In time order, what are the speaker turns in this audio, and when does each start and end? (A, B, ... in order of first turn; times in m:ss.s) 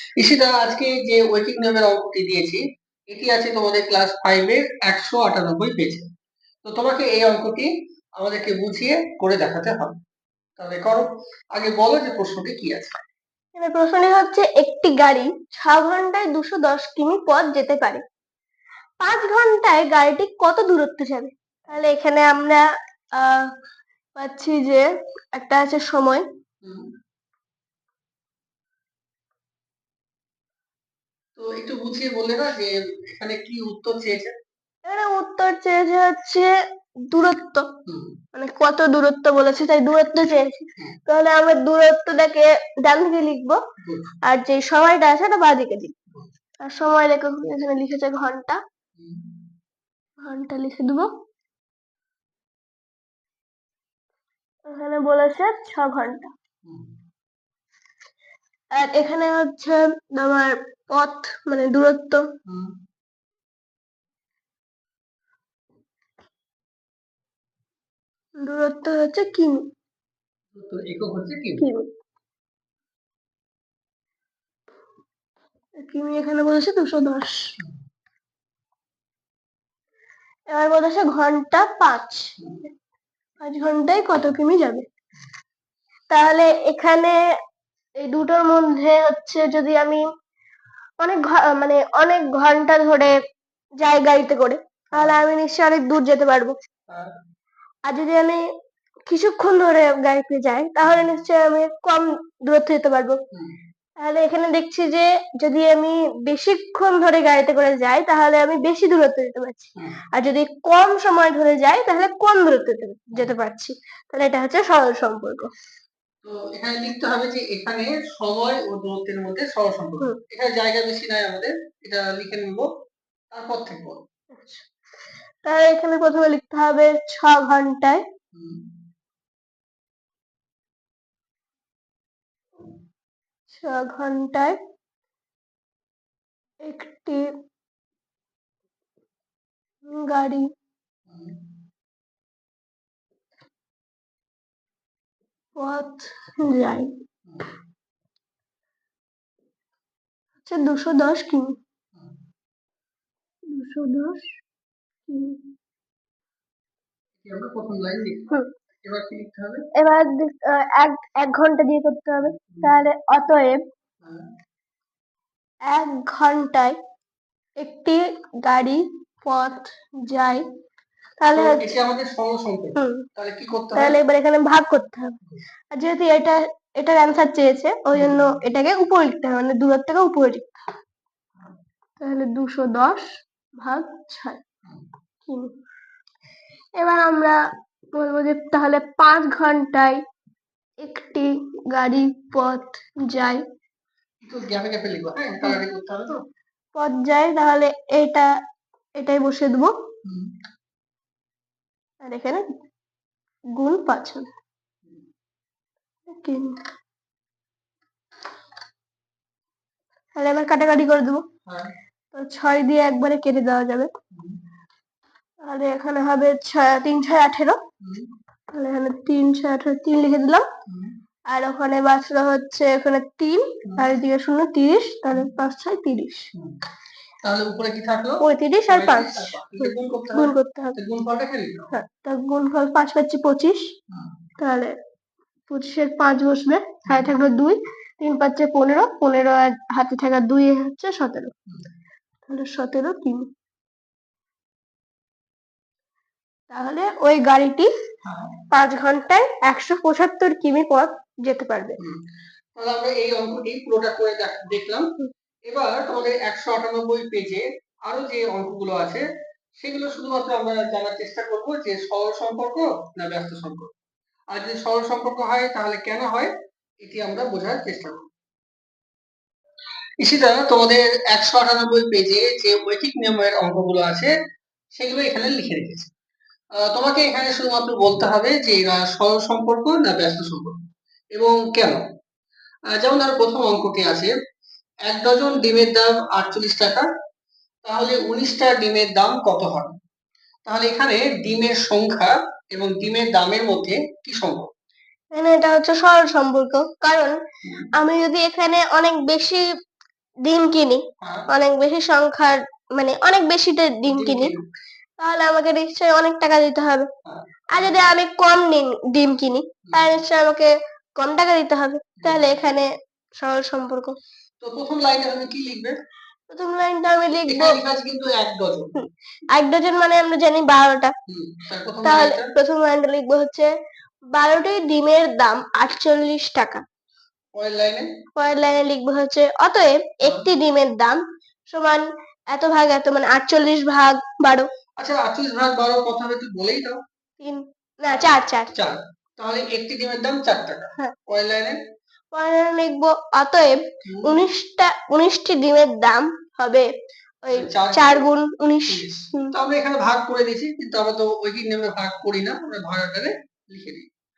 0:00.2-0:06.1 A
0:06.6-0:10.0 A
0:10.6-0:13.0 A
0:13.6-0:18.0 B
0:19.0-0:22.6 B
0:23.1-0:23.5 B
0:24.2-0:24.8 B
0:25.3-0:26.2 B
0:26.6-0:26.9 A
0:31.4-0:34.4 A
0:34.8-0:36.5 B
0:37.1-0:37.7 B
0:37.9-0:38.1 A
0:38.3-0:43.6 B
0:43.8-0:44.2 A
0:44.2-0:45.9 B
0:46.6-0:48.6 B
0:49.0-0:49.3 A
0:50.2-0:51.1 B
0:54.7-0:56.3 B
0:56.7-0:56.9 A
0:58.7-1:02.3 B
1:02.5-1:02.7 A
1:08.4-1:09.6 B
1:10.5-1:11.6 A
1:11.6-1:11.9 B
1:15.8-1:17.6 B
1:20.5-1:22.4 B
1:22.4-1:22.6 A
1:23.4-1:24.9 B
1:26.1-1:27.2 B
1:28.0-1:30.0 B
1:31.0-1:33.1 B
1:33.8-1:36.6 B
1:36.9-1:37.1 A
1:37.9-1:38.4 B
1:39.1-1:43.2 B
1:40.8-1:41.1 A
1:44.0-1:55.5 B
1:56.2-2:02.7 A
2:03.3-2:04.0 A
2:04.3-2:04.6 B
2:05.4-2:08.0 B
2:08.3-2:08.6 A
2:13.5-2:14.6 B
2:16.6-2:17.3 B
2:19.8-2:20.5 B
2:21.1-2:21.4 A
2:25.6-2:26.9 B
2:27.2-2:27.5 A
2:30.4-2:31.6 B
2:33.5-2:34.3 B
2:35.1-2:35.4 B
2:37.2-2:39.6 A
2:39.8-2:43.6 B
2:44.0-2:44.3 A
2:45.7-2:46.8 B
2:47.6-2:50.4 B
2:51.2-2:51.7 B
2:51.3-2:54.0 A
2:52.8-2:53.0 B
2:53.8-2:55.2 B
2:55.7-3:00.7 B
2:57.9-2:58.3 A
3:02.0-3:03.1 B
3:03.6-3:04.4 B
3:05.2-3:05.5 B
3:06.8-3:07.4 B
3:07.9-3:10.0 B
3:10.8-3:13.4 B
3:14.2-3:16.2 A
3:16.8-3:18.3 B
3:19.0-3:19.7 B
3:20.0-3:20.3 A
3:22.0-3:22.4 B
3:23.5-3:24.3 B
3:26.1-3:26.6 B
3:30.2-3:31.2 B
3:31.5-3:31.7 A
3:32.1-3:33.9 B
3:34.1-3:34.4 A
3:35.4-3:37.6 B
3:37.8-3:38.1 A
3:38.5-3:40.4 B
3:40.7-3:40.9 A
3:41.3-3:46.3 B
3:47.2-3:51.8 A
3:48.2-3:50.8 B
3:51.7-3:53.7 B
3:54.4-3:54.8 B
3:55.5-4:01.3 B
3:56.8-3:57.1 A
4:02.3-4:03.3 B
4:06.5-4:07.7 B
4:08.0-4:08.3 A
4:08.5-4:11.8 B
4:12.6-4:14.9 A
4:15.5-4:19.0 A
4:19.6-4:23.7 A
4:24.3-4:26.3 A
4:26.8-4:28.1 A
4:30.0-4:34.1 A
4:34.8-4:35.9 A
4:36.6-4:40.6 A
4:41.2-4:41.8 A
4:42.7-4:44.1 A
4:44.9-4:46.9 A
4:47.6-4:49.8 A
4:50.5-4:54.5 A
4:55.1-4:57.1 B
4:57.8-4:59.4 B
5:00.2-5:04.3 B
5:01.0-5:01.3 A
5:03.9-5:04.4 A
5:05.0-5:06.9 B
5:07.1-5:07.8 A
5:07.5-5:14.0 B
5:09.7-5:09.9 A
5:12.0-5:12.3 A
5:14.4-5:15.8 A
5:16.3-5:17.6 B
5:17.3-5:18.8 A
5:18.8-5:20.9 B
5:21.1-5:22.3 A
5:21.8-5:23.5 B
5:24.1-5:26.6 B
5:27.4-5:27.9 A
5:28.2-5:34.5 B
5:34.8-5:36.8 A
5:37.2-5:38.5 B
5:37.9-5:41.6 A
5:42.1-5:46.7 B
5:43.8-5:44.2 A
5:47.2-5:49.3 B
5:47.3-5:48.1 A
5:48.7-5:53.9 A